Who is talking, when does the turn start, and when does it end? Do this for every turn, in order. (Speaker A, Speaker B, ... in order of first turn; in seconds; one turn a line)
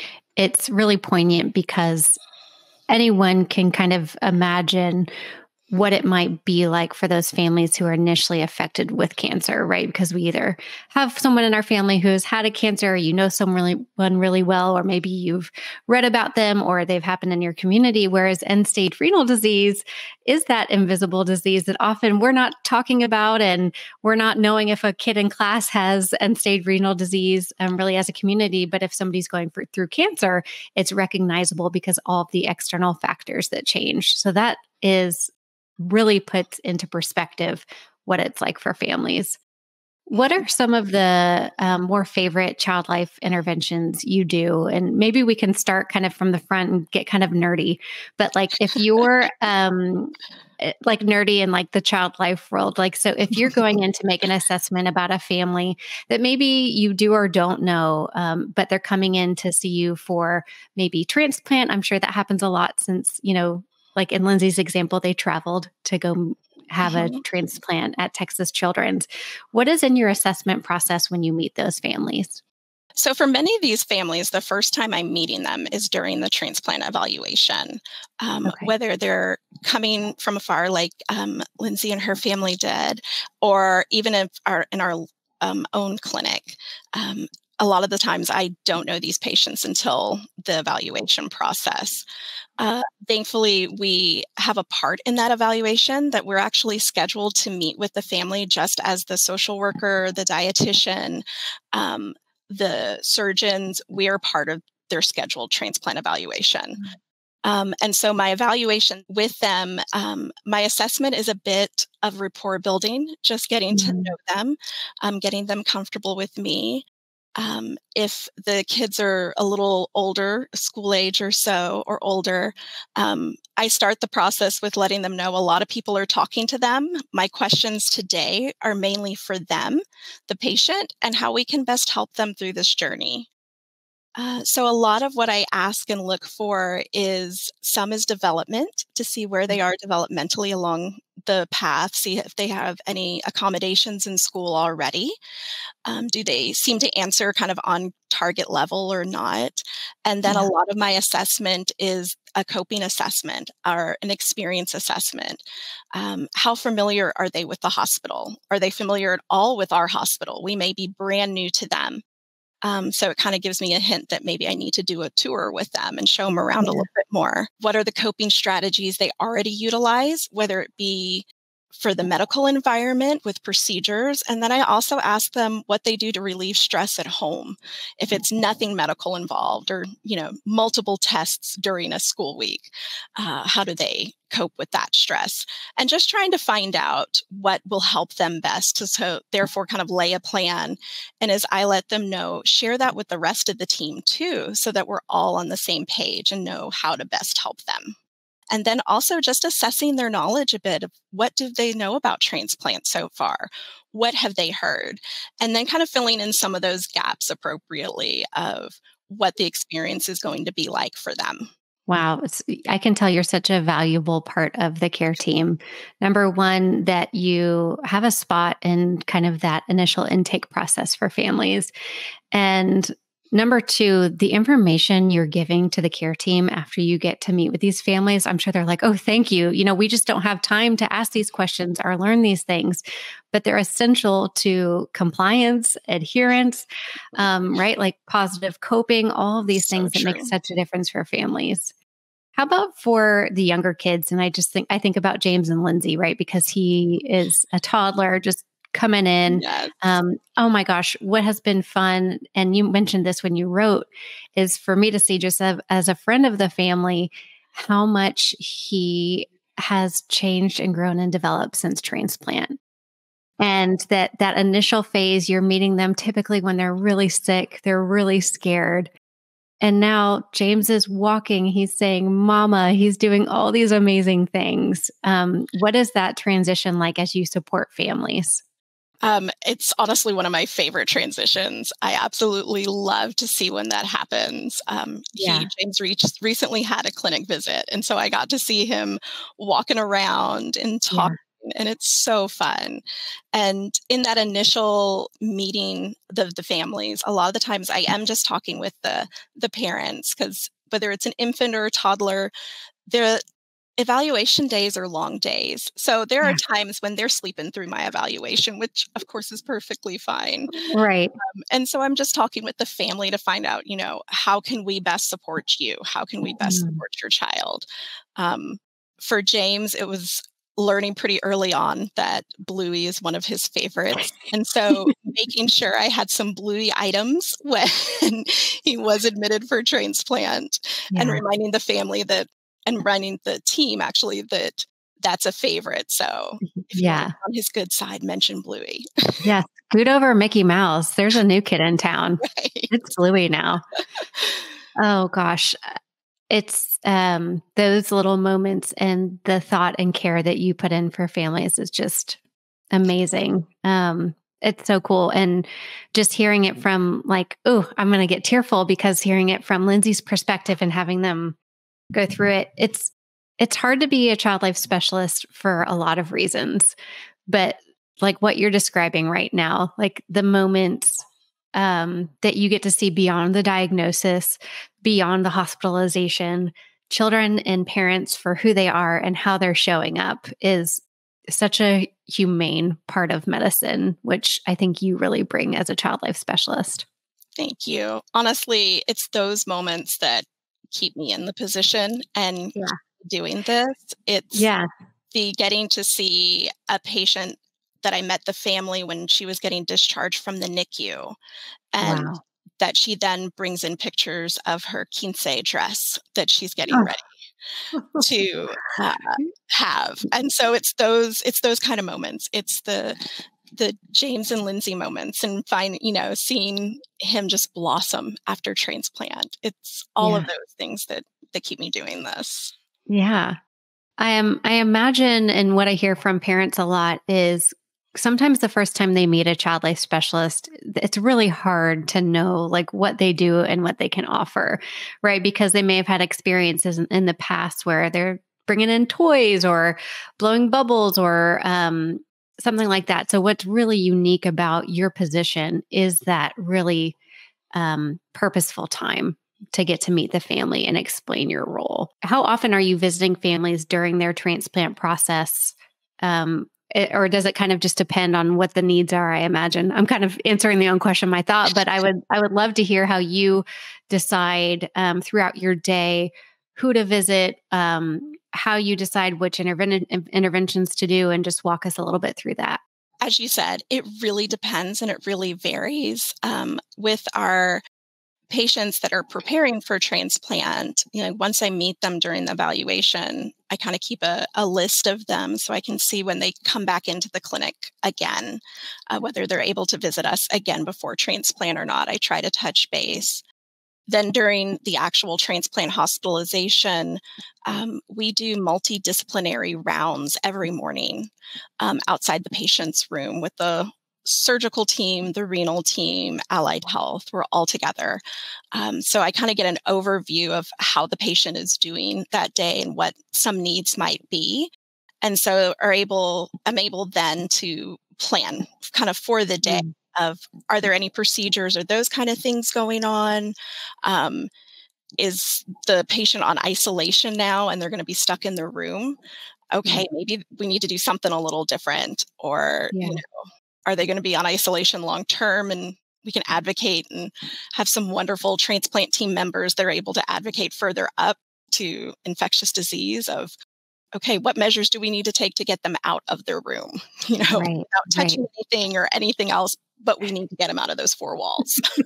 Speaker A: 0.3-2.2
Speaker A: 2.9-5.1
Speaker A: 5.7-39.4
Speaker A: 40.1-72.4
Speaker B: 40.1-40.4
Speaker B: 66.8-67.2
Speaker B: 72.9-92.0
Speaker A: 78.4-78.7
Speaker B: 92.6-106.8
Speaker B: 107.4-116.8
Speaker A: 113.7-114.1
Speaker B: 117.4-133.3
Speaker B: 134.2-145.2
Speaker B: 145.8-155.4
Speaker B: 155.9-162.0
Speaker B: 162.6-197.9
Speaker A: 166.6-166.9
Speaker B: 198.5-211.5
Speaker A: 211.9-221.7
Speaker A: 222.3-241.7
Speaker B: 239.6-240.3
Speaker A: 242.3-262.6
Speaker B: 249.3-249.7
Speaker A: 263.4-268.9
Speaker A: 269.6-278.4
Speaker B: 279.0-302.3
Speaker A: 285.2-285.5
Speaker A: 290.9-291.2
Speaker B: 302.9-303.2
Speaker B: 303.8-310.6
Speaker A: 310.5-311.1
Speaker B: 311.2-317.6
Speaker A: 316.4-316.8
Speaker B: 318.2-339.2
Speaker A: 330.9-331.2
Speaker A: 336.4-337.1
Speaker A: 339.2-343.6
Speaker B: 342.2-342.7
Speaker B: 344.0-344.5
Speaker A: 344.8-345.6
Speaker A: 346.3-352.2
Speaker A: 352.7-361.4
Speaker A: 361.9-366.8
Speaker A: 367.3-371.0
Speaker A: 371.6-386.8
Speaker B: 387.4-394.5
Speaker A: 394.3-394.6
Speaker B: 395.1-401.2
Speaker B: 401.7-407.1
Speaker A: 401.8-402.2
Speaker A: 407.7-408.0
Speaker B: 408.0-413.0
Speaker B: 413.5-422.5
Speaker A: 420.0-420.3
Speaker A: 422.9-423.4
Speaker A: 424.0-447.0
Speaker A: 447.5-472.6
Speaker B: 473.0-477.6
Speaker B: 478.3-493.2
Speaker B: 493.9-508.0
Speaker B: 508.5-514.5
Speaker B: 515.0-524.3
Speaker A: 519.4-519.7
Speaker B: 525.0-529.0
Speaker B: 529.5-533.1
Speaker A: 532.7-533.0
Speaker B: 533.6-543.3
Speaker B: 543.9-551.6
Speaker A: 547.3-548.2